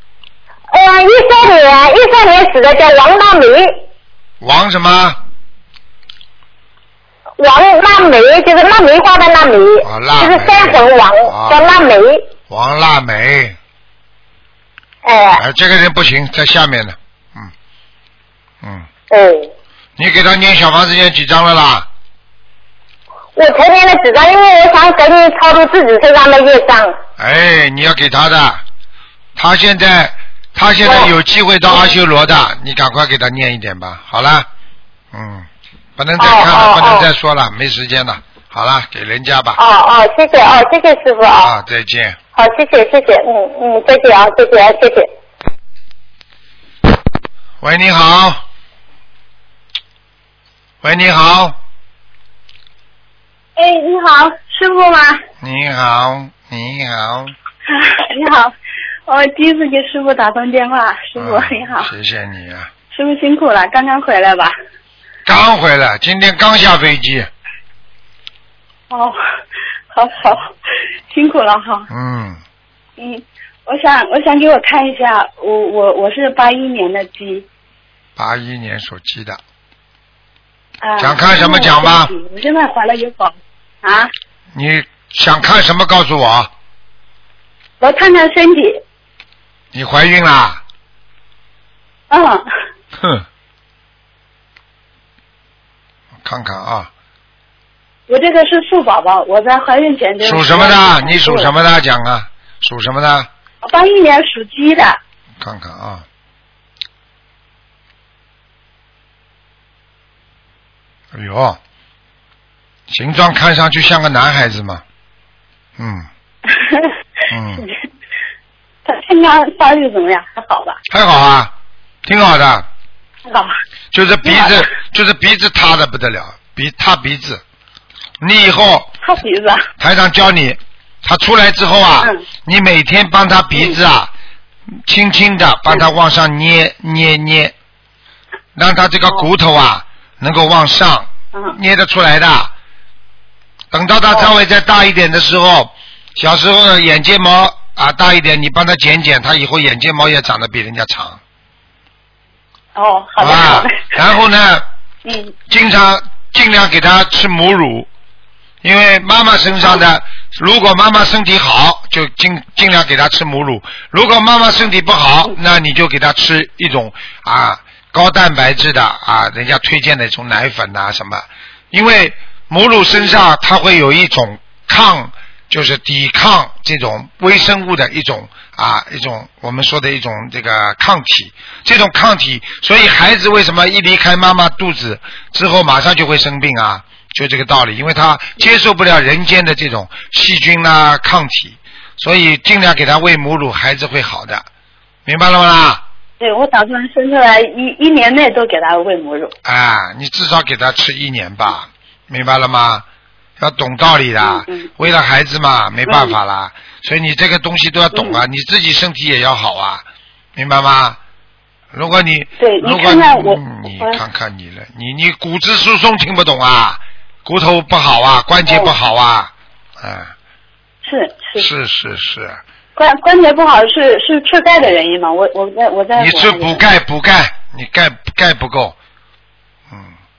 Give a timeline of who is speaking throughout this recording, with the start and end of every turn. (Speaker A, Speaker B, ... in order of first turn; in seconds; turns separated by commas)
Speaker A: 0.7-3.8, Speaker B: 4.4-5.2, Speaker A: 7.4-12.2, Speaker B: 9.8-11.7, Speaker B: 12.5-13.6, Speaker A: 15.0-15.4, Speaker B: 15.4-17.5, Speaker B: 18.6-18.9, Speaker A: 19.1-19.5, Speaker B: 20.0-21.9, Speaker A: 23.4-27.0, Speaker B: 27.2-28.6, Speaker B: 29.4-34.5, Speaker A: 30.9-31.1, Speaker B: 35.1-39.6, Speaker A: 36.2-37.1, Speaker A: 39.6-41.5, Speaker B: 41.4-42.2, Speaker A: 42.4-45.1, Speaker B: 47.6-48.4, Speaker B: 50.8-51.6, Speaker C: 53.5-55.2, Speaker B: 55.4-57.3, Speaker C: 57.7-58.5, Speaker C: 59.1-61.9, Speaker B: 61.2-62.7, Speaker C: 62.9-64.5, Speaker B: 65.2-67.3, Speaker C: 68.9-69.2, Speaker C: 69.9-70.5, Speaker C: 71.1-71.9, Speaker B: 71.9-72.4, Speaker C: 73.0-77.5, Speaker B: 78.2-79.4, Speaker C: 80.8-84.1, Speaker B: 81.0-82.1, Speaker B: 84.5-86.5, Speaker C: 87.8-88.8, Speaker B: 89.7-90.6, Speaker C: 92.1-92.5, Speaker B: 93.0-93.2, Speaker B: 96.2-96.9, Speaker C: 98.1-101.5, Speaker B: 100.2-103.3, Speaker C: 103.6-105.0, Speaker B: 105.4-106.0, Speaker B: 111.1-111.6, Speaker B: 112.9-114.8, Speaker B: 115.8-116.1, Speaker C: 116.5-116.9, Speaker B: 117.3-117.6, Speaker C: 118.8-120.8, Speaker B: 120.9-121.5, Speaker B: 122.0-122.7, Speaker C: 123.3-123.5, Speaker B: 123.9-127.4, Speaker C: 124.2-124.7, Speaker B: 128.2-128.9, Speaker C: 129.0-129.7, Speaker B: 129.8-134.1, Speaker B: 134.8-137.5, Speaker B: 138.5-142.5, Speaker B: 143.7-151.2, Speaker C: 152.7-153.9, Speaker B: 153.2-154.6, Speaker C: 155.0-155.3, Speaker B: 155.5-157.9, Speaker B: 158.6-194.4, Speaker B: 195.1-195.8, Speaker C: 196.2-199.3, Speaker B: 199.4-202.8, Speaker B: 203.4-209.8, Speaker C: 204.2-204.7, Speaker C: 205.8-206.2, Speaker C: 207.9-208.2, Speaker B: 210.3-211.0, Speaker B: 211.7-220.1, Speaker C: 212.4-214.0, Speaker C: 218.5-218.8, Speaker C: 220.8-221.5, Speaker B: 221.4-222.4, Speaker C: 222.8-226.6, Speaker B: 225.9-228.7